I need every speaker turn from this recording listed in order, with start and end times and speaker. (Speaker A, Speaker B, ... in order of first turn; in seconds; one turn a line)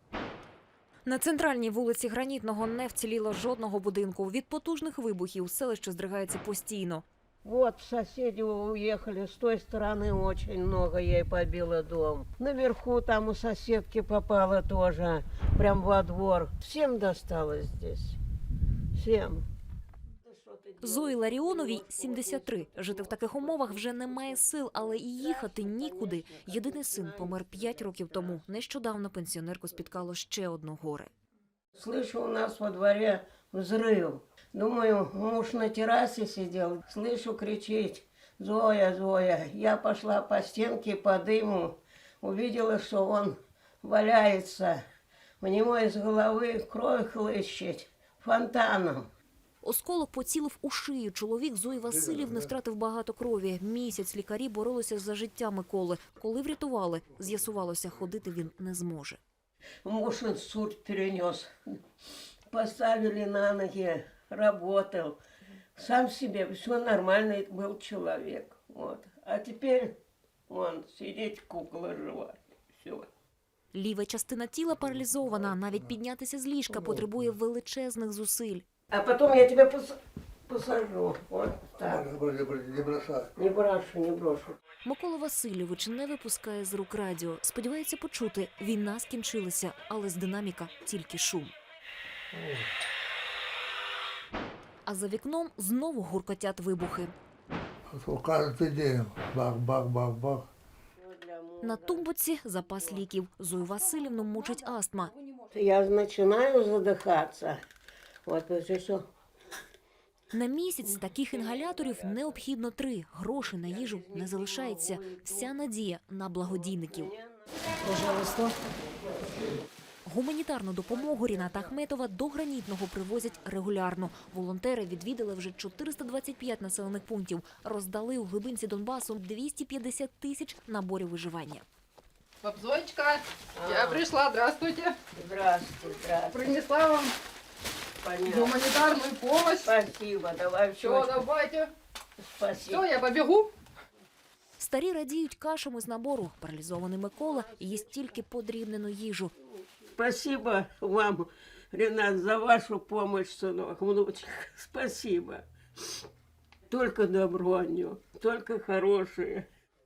Speaker A: 1.1-7.0
Speaker B: 7.4-18.2
Speaker B: 18.9-19.5
Speaker B: 20.2-28.5
Speaker A: 20.8-31.1
Speaker B: 31.7-44.8
Speaker B: 45.4-49.1
Speaker A: 49.6-59.2
Speaker C: 51.9-52.4
Speaker B: 59.8-61.8
Speaker B: 62.5-65.2
Speaker B: 65.8-70.0
Speaker B: 70.5-73.1
Speaker A: 73.7-78.6
Speaker C: 76.7-77.2
Speaker B: 78.9-82.1
Speaker C: 81.8-83.3
Speaker B: 83.3-84.6
Speaker A: 84.8-91.5
Speaker C: 92.3-92.7
Speaker A: 94.8-97.1
Speaker C: 97.9-100.5
Speaker B: 101.0-102.1
Speaker A: 101.6-105.1
Speaker B: 102.7-103.0
Speaker B: 105.5-107.6
Speaker B: 108.2-109.1
Speaker A: 110.3-117.1
Speaker B: 111.3-112.3
Speaker B: 113.6-115.5
Speaker B: 116.4-118.1
Speaker A: 118.1-118.4
Speaker A: 120.0-131.6
Speaker D: 132.4-135.0
Speaker B: 133.5-134.0
Speaker B: 135.1-136.5
Speaker D: 136.3-137.1
Speaker B: 138.0-138.6
Speaker D: 138.2-139.7
Speaker B: 139.6-141.2
Speaker D: 140.8-141.7
Speaker B: 142.2-142.8
Speaker D: 142.7-143.5
Speaker A: 144.6-149.3
Speaker B: 147.2-148.2
Speaker B: 149.4-155.5
Speaker B: 156.7-159.5